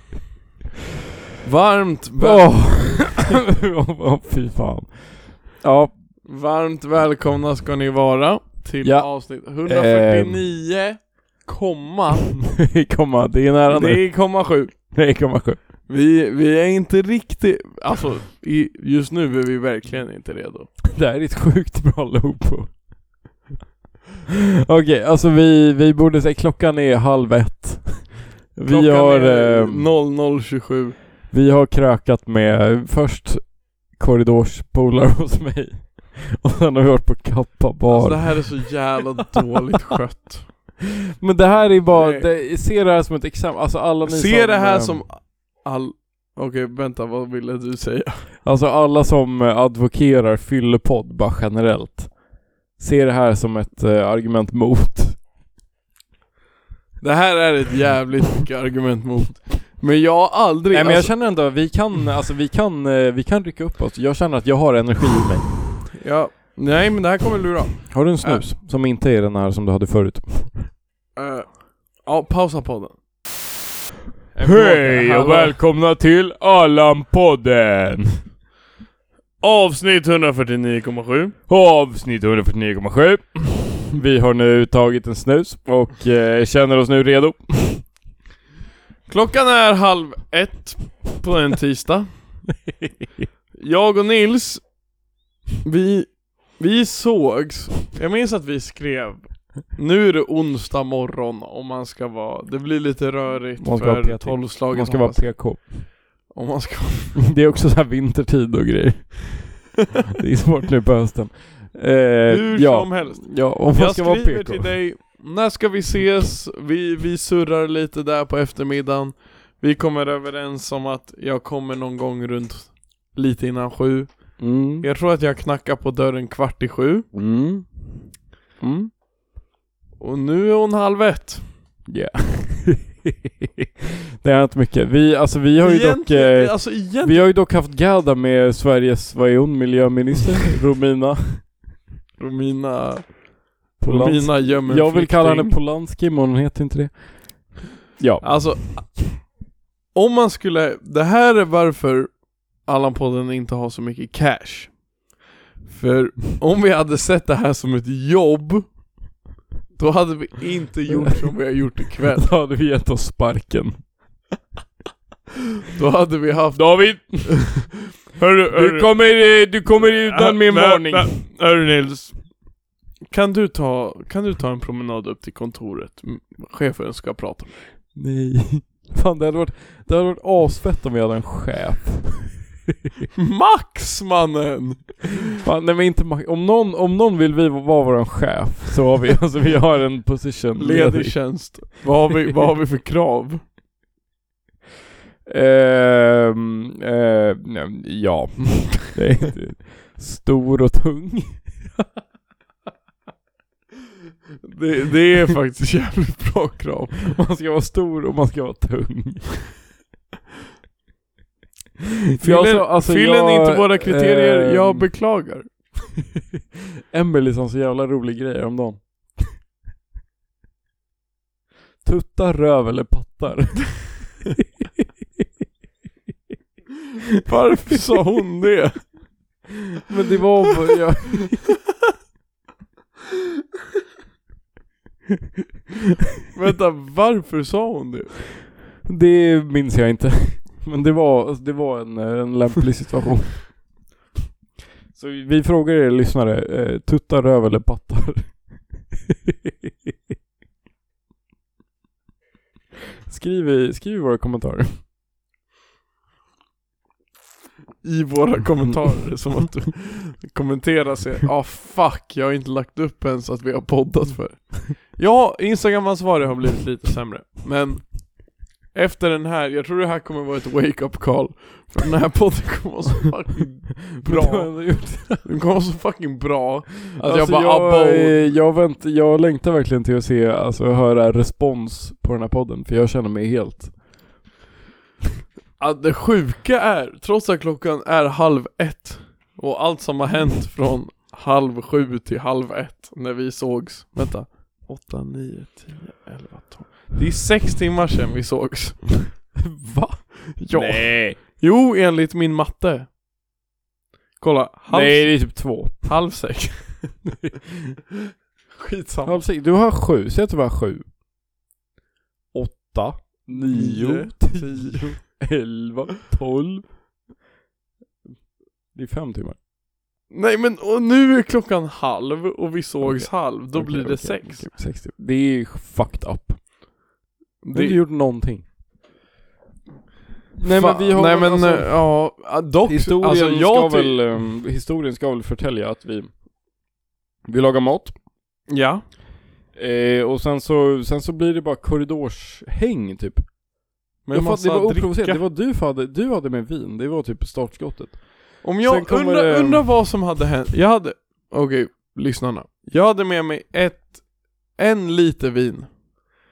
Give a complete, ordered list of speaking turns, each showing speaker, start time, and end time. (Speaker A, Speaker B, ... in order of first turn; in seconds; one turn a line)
Speaker A: 1.4-3.1
Speaker B: 2.2-5.9
Speaker A: 6.2-12.3
Speaker B: 8.8-10.4
Speaker B: 12.4-14.0
Speaker A: 13.7-14.9
Speaker B: 14.9-15.6
Speaker A: 15.9-20.7
Speaker B: 20.8-22.9
Speaker B: 24.6-29.9
Speaker A: 28.7-31.0
Speaker B: 31.3-38.7
Speaker A: 37.9-40.5
Speaker B: 41.2-45.0
Speaker A: 42.0-42.3
Speaker A: 44.0-48.3
Speaker B: 48.4-52.2
Speaker B: 52.8-55.2
Speaker A: 57.0-61.3
Speaker B: 60.7-65.9
Speaker A: 65.9-68.5
Speaker B: 67.9-70.7
Speaker A: 71.2-73.0
Speaker A: 74.3-75.6
Speaker B: 74.4-78.2
Speaker A: 79.4-81.3
Speaker B: 81.5-87.9
Speaker A: 89.1-92.1
Speaker A: 93.5-94.7
Speaker A: 95.6-107.2
Speaker B: 103.6-105.9
Speaker B: 107.2-114.8
Speaker A: 112.3-127.1
Speaker B: 124.4-124.9
Speaker B: 127.1-127.9
Speaker B: 128.6-128.9
Speaker A: 130.0-131.4
Speaker B: 131.9-133.1
Speaker B: 134.2-141.5
Speaker A: 135.6-137.3
Speaker A: 142.2-145.6
Speaker B: 143.8-148.5
Speaker A: 148.2-149.3
Speaker A: 149.9-154.8
Speaker A: 155.7-158.7
Speaker A: 159.8-162.3
Speaker B: 160.9-163.9
Speaker A: 165.7-167.3
Speaker B: 166.5-167.8
Speaker A: 168.1-168.9
Speaker B: 168.5-171.2
Speaker A: 169.7-172.2
Speaker A: 173.1-177.7
Speaker B: 177.9-182.5
Speaker A: 183.2-185.3
Speaker B: 185.4-191.7
Speaker A: 190.6-193.4
Speaker B: 195.3-201.6
Speaker A: 204.4-207.2
Speaker B: 207.1-209.3
Speaker B: 212.2-214.9
Speaker A: 212.2-215.5
Speaker B: 216.9-219.3
Speaker B: 221.8-224.2
Speaker A: 227.2-229.0
Speaker B: 229.9-231.5
Speaker A: 236.3-238.4
Speaker B: 238.8-243.7
Speaker B: 244.9-248.5
Speaker B: 253.1-254.7
Speaker A: 257.8-278.3
Speaker B: 273.9-275.2
Speaker B: 277.0-283.8
Speaker A: 285.6-299.2
Speaker B: 299.4-301.2
Speaker A: 300.4-302.9
Speaker A: 304.2-307.0
Speaker B: 304.7-305.9
Speaker A: 308.5-309.2
Speaker B: 309.1-310.9
Speaker B: 312.3-316.7
Speaker A: 313.3-315.2
Speaker B: 318.7-319.4
Speaker A: 320.1-324.5
Speaker B: 322.8-326.4
Speaker A: 327.4-327.8
Speaker B: 327.5-328.4
Speaker B: 330.4-331.9
Speaker A: 330.5-334.0
Speaker B: 332.7-336.1
Speaker B: 337.3-338.0
Speaker A: 338.5-338.8
Speaker B: 339.5-343.3
Speaker A: 344.1-345.2
Speaker B: 344.1-349.8
Speaker A: 348.4-355.8